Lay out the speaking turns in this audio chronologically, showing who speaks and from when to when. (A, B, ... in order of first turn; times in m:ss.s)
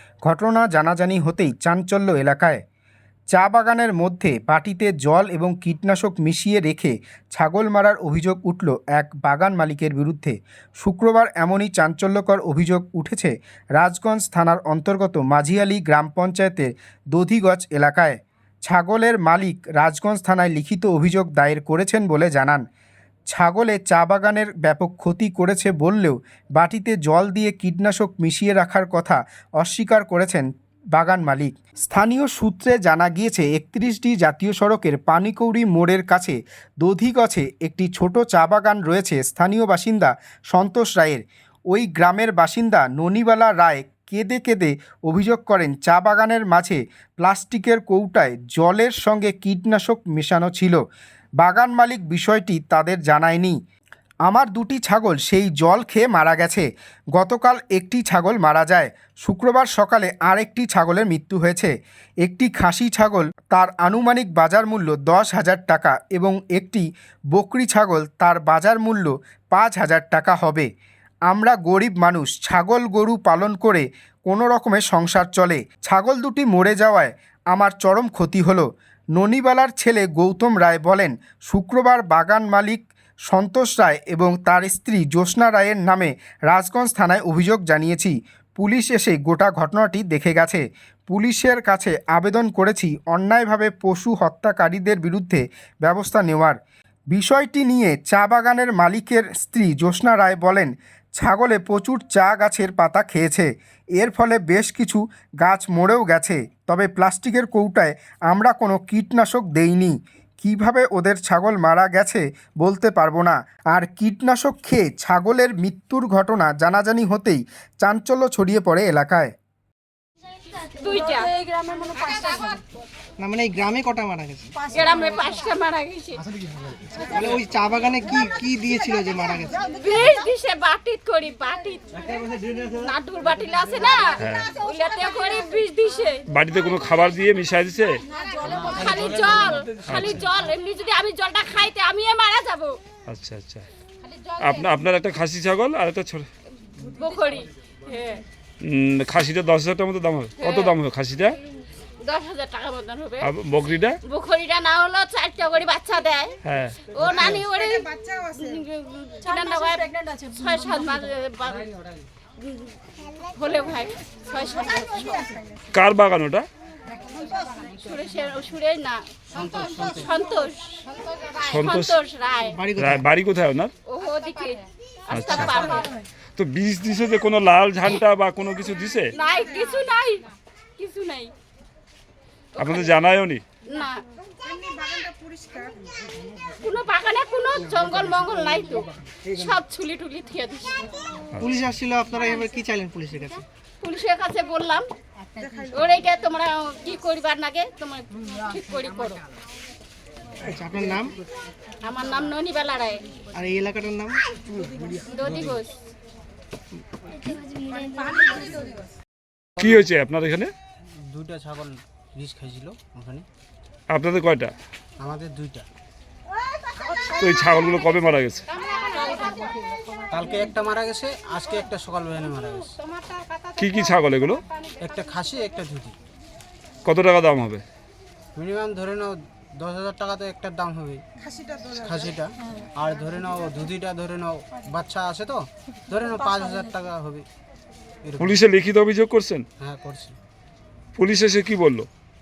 0:00.2-0:02.6 A
0:03.3-0:22.6 A
0:23.3-0:50.8 A
0:51.4-0:53.6 A
0:54.3-1:10.7 A
1:11.3-1:36.6 A
1:37.1-1:59.3 A
2:00.6-2:02.6 B
2:03.2-2:04.6 C
2:04.7-2:06.2 B
2:07.0-2:09.8 C
2:09.7-2:12.0 B
2:12.6-2:16.2 B
2:14.2-2:14.6 D
2:16.3-2:18.0 D
2:18.2-2:22.8 B
2:19.8-2:20.2 D
2:23.1-2:23.7 D
2:24.1-2:24.6 B
2:24.4-2:26.3 D
2:26.7-2:28.2 B
2:28.6-2:31.4 D
2:30.4-2:30.8 B
2:32.0-2:33.3 B
2:33.2-2:34.0 D
2:34.0-2:41.7 B
2:36.4-2:36.9 D
2:42.4-2:45.3 B
2:45.7-2:46.5 D
2:47.2-2:52.6 B
2:49.3-2:50.1 E
2:51.4-2:52.0 D
2:52.5-2:53.1 C
2:52.8-2:53.7 D
2:53.8-2:56.0 B
2:55.1-2:59.2 D
2:59.2-3:01.3 B
3:02.6-3:03.4 D
3:02.6-3:02.9 B
3:03.6-3:04.0 B
3:06.6-3:10.9 B
3:11.3-3:11.7 D
3:11.4-3:13.4 C
3:13.8-3:14.9 B
3:15.6-3:19.2 B
3:20.5-3:21.2 C
3:21.8-3:23.1 B
3:23.3-3:24.2 C
3:25.1-3:25.7 B
3:25.2-3:25.6 E
3:29.6-3:30.5 D
3:31.0-3:33.3 E
3:33.9-3:34.5 D
3:35.0-3:35.7 E
3:37.2-3:38.5 D
3:38.5-3:39.5 B
3:40.1-3:42.8 E
3:43.0-3:43.4 B
3:43.6-3:44.4 D
3:44.8-3:46.0 E
3:46.8-3:47.6 D
3:48.4-3:51.0 E
3:51.7-3:57.3 E
3:58.0-3:58.4 E
3:58.2-3:59.5 D
3:59.6-4:00.2 E
4:01.0-4:01.9 D